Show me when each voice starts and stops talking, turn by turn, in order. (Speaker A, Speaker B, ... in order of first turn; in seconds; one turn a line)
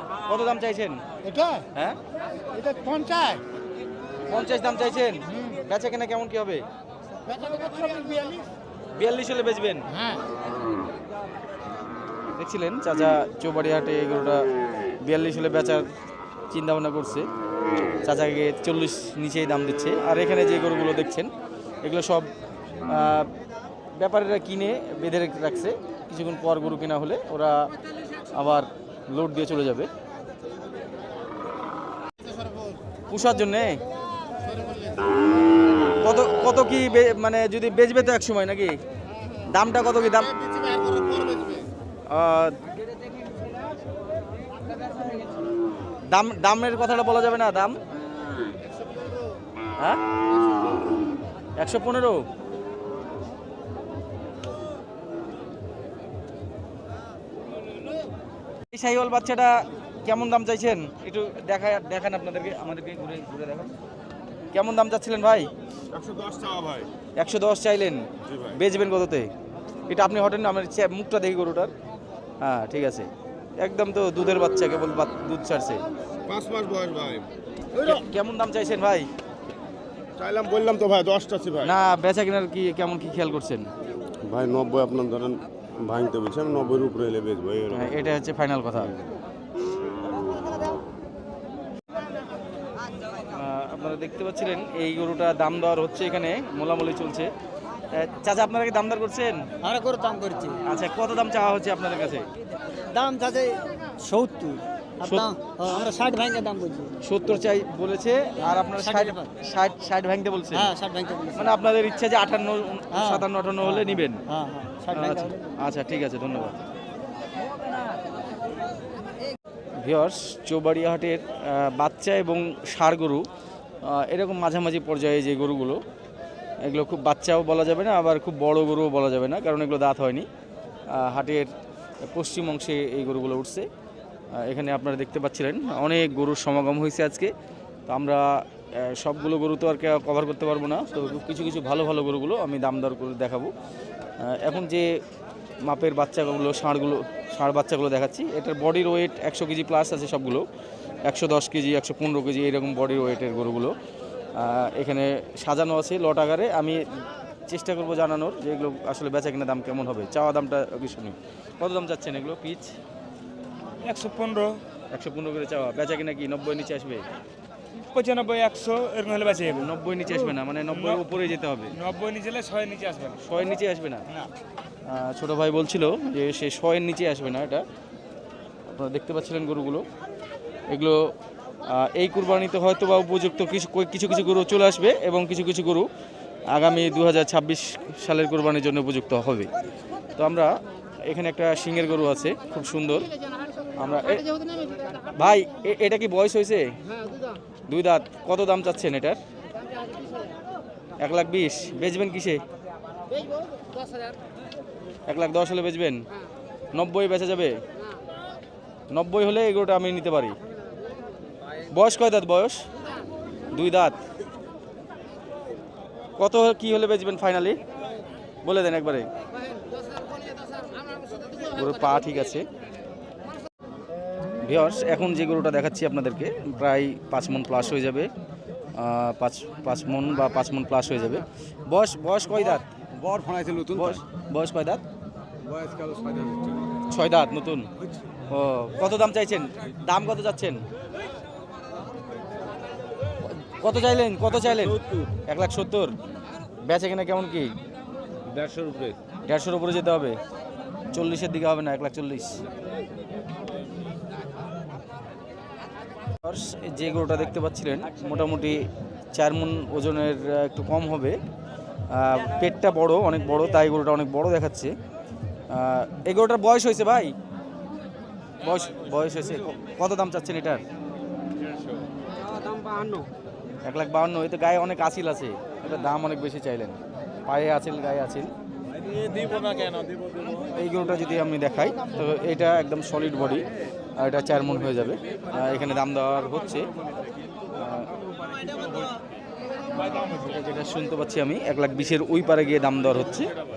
Speaker A: 0.2-1.0
Speaker B: 1.2-1.7
Speaker B: 2.5-3.4
Speaker A: 4.3-6.6
Speaker B: 5.3-5.6
Speaker B: 7.3-8.4
Speaker A: 8.9-9.8
Speaker B: 9.9-10.2
Speaker A: 12.3-14.4
Speaker A: 15.0-15.8
Speaker A: 16.5-17.3
Speaker A: 18.0-21.3
Speaker A: 21.8-22.3
Speaker A: 22.9-23.3
Speaker A: 23.9-27.6
Speaker A: 28.3-29.9
Speaker A: 33.1-33.8
Speaker A: 36.0-38.8
Speaker A: 39.5-40.4
Speaker A: 42.1-42.5
Speaker A: 46.1-47.8
Speaker A: 51.6-52.2
Speaker A: 58.7-59.5
Speaker A: 60.0-63.7
Speaker A: 64.5-65.5
Speaker C: 65.9-66.9
Speaker A: 67.2-69.3
Speaker C: 68.2-68.6
Speaker A: 69.9-71.7
Speaker A: 72.4-75.8
Speaker C: 76.3-77.2
Speaker A: 77.8-79.1
Speaker C: 80.2-81.7
Speaker A: 81.6-83.7
Speaker C: 84.2-88.0
Speaker A: 87.7-88.9
Speaker A: 93.3-97.3
Speaker A: 97.9-99.4
Speaker D: 99.7-100.5
Speaker A: 100.6-102.3
Speaker A: 105.0-105.3
Speaker D: 106.5-106.8
Speaker A: 107.0-110.7
Speaker D: 108.9-109.2
Speaker D: 110.6-111.4
Speaker A: 111.3-114.2
Speaker B: 114.3-115.3
Speaker A: 114.9-116.6
Speaker A: 119.8-123.2
Speaker A: 123.8-125.8
Speaker A: 126.6-130.3
Speaker A: 130.9-131.5
Speaker A: 132.1-133.7
Speaker A: 134.3-137.3
Speaker A: 137.9-143.5
Speaker A: 144.2-144.9
Speaker A: 145.6-150.4
Speaker A: 151.1-153.7
Speaker A: 154.3-156.8
Speaker A: 157.5-162.8
Speaker E: 163.8-164.6
Speaker A: 164.9-167.0
Speaker E: 167.8-171.0
Speaker A: 169.5-171.7
Speaker E: 171.7-173.2
Speaker A: 173.2-174.0
Speaker A: 174.9-177.6
Speaker A: 178.7-179.8
Speaker A: 180.7-181.0
Speaker A: 181.7-185.9
Speaker A: 186.5-189.5
Speaker A: 190.2-190.5
Speaker A: 191.1-193.1
Speaker A: 193.8-194.3
Speaker A: 195.1-196.7
Speaker A: 197.7-199.2
Speaker A: 201.0-202.4
Speaker A: 205.1-206.0
Speaker A: 206.7-207.6
Speaker A: 208.9-210.3
Speaker A: 211.7-212.6
Speaker A: 213.5-214.0
Speaker A: 216.2-217.6
Speaker A: 218.4-219.1
Speaker A: 221.5-222.4
Speaker A: 224.4-228.1
Speaker A: 228.7-232.6
Speaker B: 232.4-234.0
Speaker A: 233.7-234.8
Speaker E: 235.4-236.7
Speaker A: 236.9-237.7
Speaker A: 238.3-240.6
Speaker A: 243.2-245.9
Speaker A: 246.6-247.5
Speaker A: 249.2-250.2
Speaker A: 250.9-252.4
Speaker A: 256.2-261.2
Speaker A: 261.9-264.7
Speaker A: 265.5-267.1
Speaker A: 268.4-270.6
Speaker A: 273.6-278.3
Speaker E: 279.3-279.9
Speaker A: 280.5-283.4
Speaker A: 284.0-286.7
Speaker A: 287.5-287.9
Speaker A: 289.7-293.3